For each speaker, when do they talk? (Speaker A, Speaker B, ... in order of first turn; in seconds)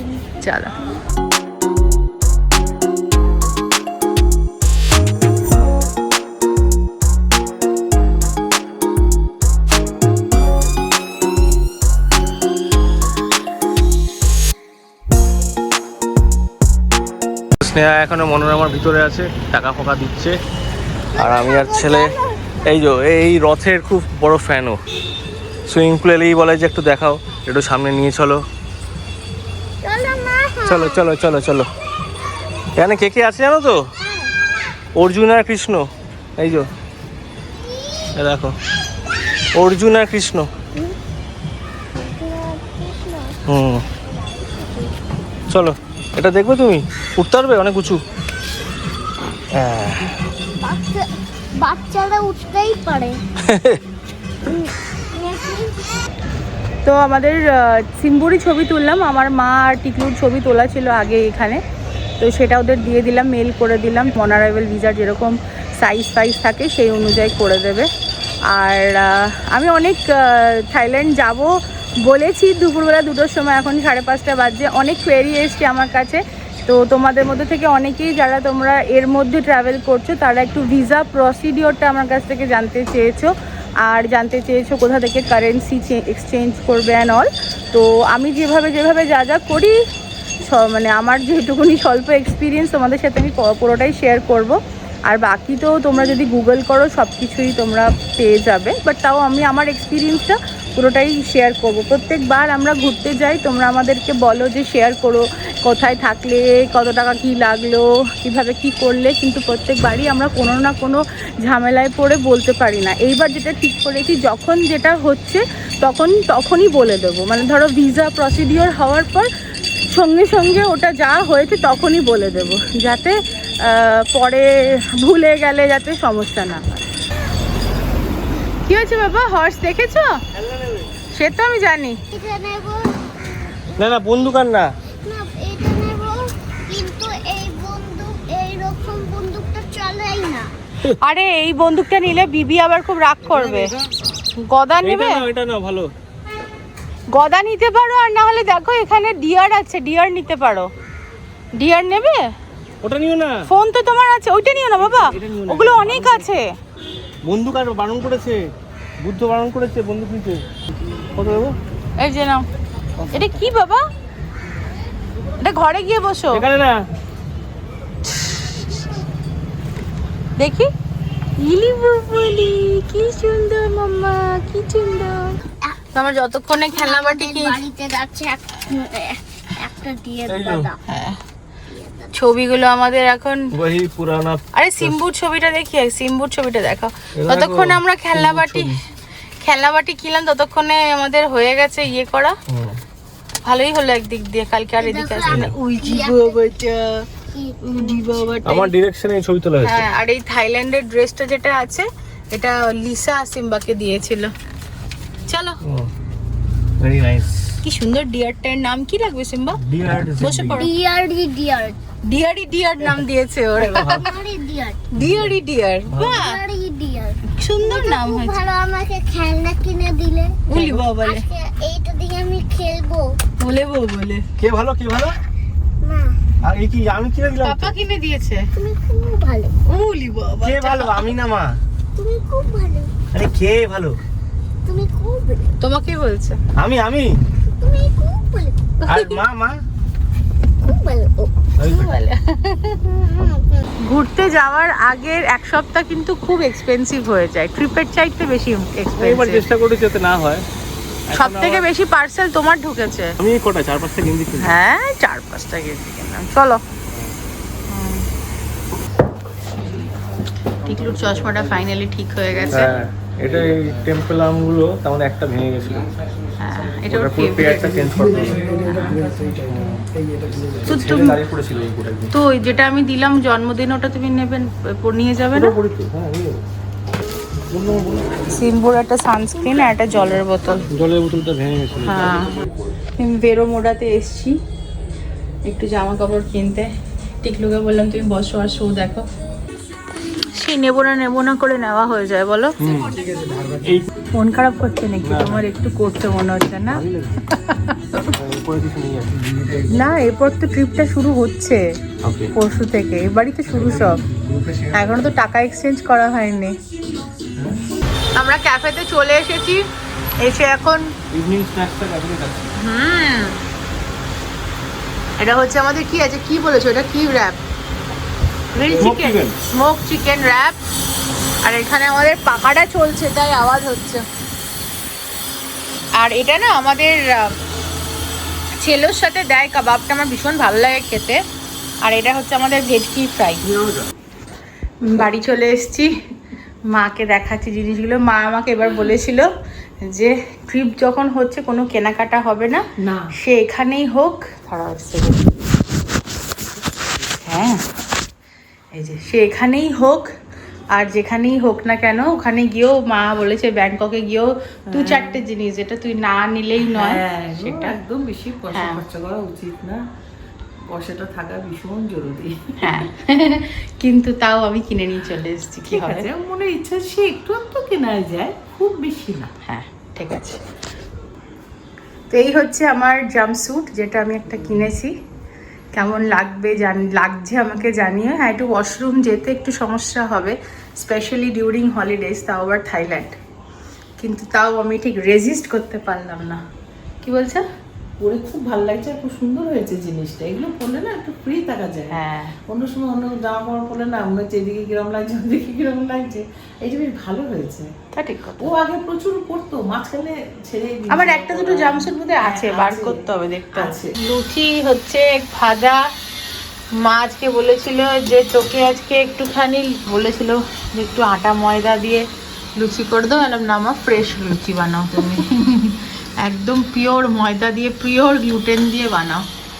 Speaker A: 0.4-0.8, 56.8-61.6, 62.2-67.9, 68.5-89.8, 90.4-119.3, 119.9-126.8, 128.7-130.1, 131.1-132.0, 141.0-143.7, 144.4-145.2, 147.1-150.7, 151.6-152.2, 153.5-156.5, 162.0-162.4, 163.1-163.8, 165.4-166.4, 170.4-170.7, 171.4-175.3, 175.9-177.6, 180.9-181.2, 182.1-183.5, 184.5-188.8, 189.4-192.4, 193.4-197.1, 197.6-198.7, 199.6-204.3, 205.3-205.6, 207.6-209.6, 210.1-210.7, 212.1-214.1, 214.9-216.4, 217.3-218.4, 220.5-221.2, 223.4-224.3, 227.4-228.5, 229.7-231.0, 235.6-236.4, 238.8-239.2, 241.6-242.8, 243.8-249.4, 251.1-253.2, 254.4-256.6, 257.7-258.0, 260.5-262.7, 266.4-269.0, 270.7-271.2, 272.1-275.6, 278.3-280.7, 281.8-282.4, 283.0-284.4, 285.4-286.7, 287.2-289.1, 290.4-292.6, 294.1-298.1, 299.7-301.6, 302.3-304.0, 304.7-306.6, 308.1-309.6, 310.2-310.9, 312.6-313.4, 315.2-317.4, 318.5-320.6, 321.4-324.0, 326.0-327.4, 328.5-331.2, 331.8-333.7, 334.8-335.9, 336.7-339.3, 339.8-345.2, 347.2-347.6, 348.7-350.1, 350.7-357.8, 358.5-358.8, 362.6-366.1, 369.4-370.4, 372.1-374.9, 375.7-383.1, 384.0-386.4, 387.0-387.4, 391.9-392.4, 397.9-398.5, 400.9-405.8, 406.8-419.3
Speaker B: 17.6-20.4, 21.2-24.8, 25.7-28.4, 30.6-31.7, 32.8-33.8, 35.0-36.7, 38.1-38.6, 39.5-40.5, 43.5-43.9, 45.5-48.0, 49.5-50.2, 53.4-53.8, 130.3-130.9, 133.8-134.7, 143.2-143.9, 144.8-145.9, 152.8-153.4, 154.8-156.3, 157.2-158.4, 159.0-160.4, 161.1-161.6, 163.0-163.3, 166.3-166.8, 180.3-180.7, 183.5-184.9, 187.2-188.8, 192.5-192.8, 195.3-195.5, 198.4-199.9, 205.6-205.9, 206.8-207.5, 209.6-210.6, 213.6-214.1, 215.0-215.3, 215.9-216.2, 224.4-225.2, 226.4-227.7, 230.4-231.6, 233.1-234.0, 236.6-237.2, 238.9-239.6, 241.6-241.9, 249.0-250.4, 251.1-251.7, 253.2-254.6, 262.5-265.9, 266.9-272.1, 275.3-276.4, 277.5-278.1, 280.6-282.7, 292.6-292.9, 293.6-293.9, 295.0-295.4, 296.7-297.2, 298.1-299.3, 302.0-302.3, 303.7-304.8, 311.1-312.5, 318.7-319.4
Speaker C: 21.1-22.7, 29.8-31.1, 34.0-34.3, 37.6-38.1, 41.9-43.4, 44.1-44.9, 50.6-53.2, 54.5-55.9, 132.1-134.2, 135.0-140.5, 176.7-180.8, 181.7-182.1, 194.8-196.4, 197.3-198.1, 210.6-211.8, 213.8-214.9, 215.9-223.1, 225.8-226.2, 228.6-229.6, 231.9-232.9, 234.7-235.6, 237.6-238.7, 240.6-241.4, 242.9-243.7
Speaker D: 342.8-343.1, 354.7-355.2, 356.6-359.8, 360.6-362.8, 365.7-369.3, 388.0-397.7, 398.4-403.9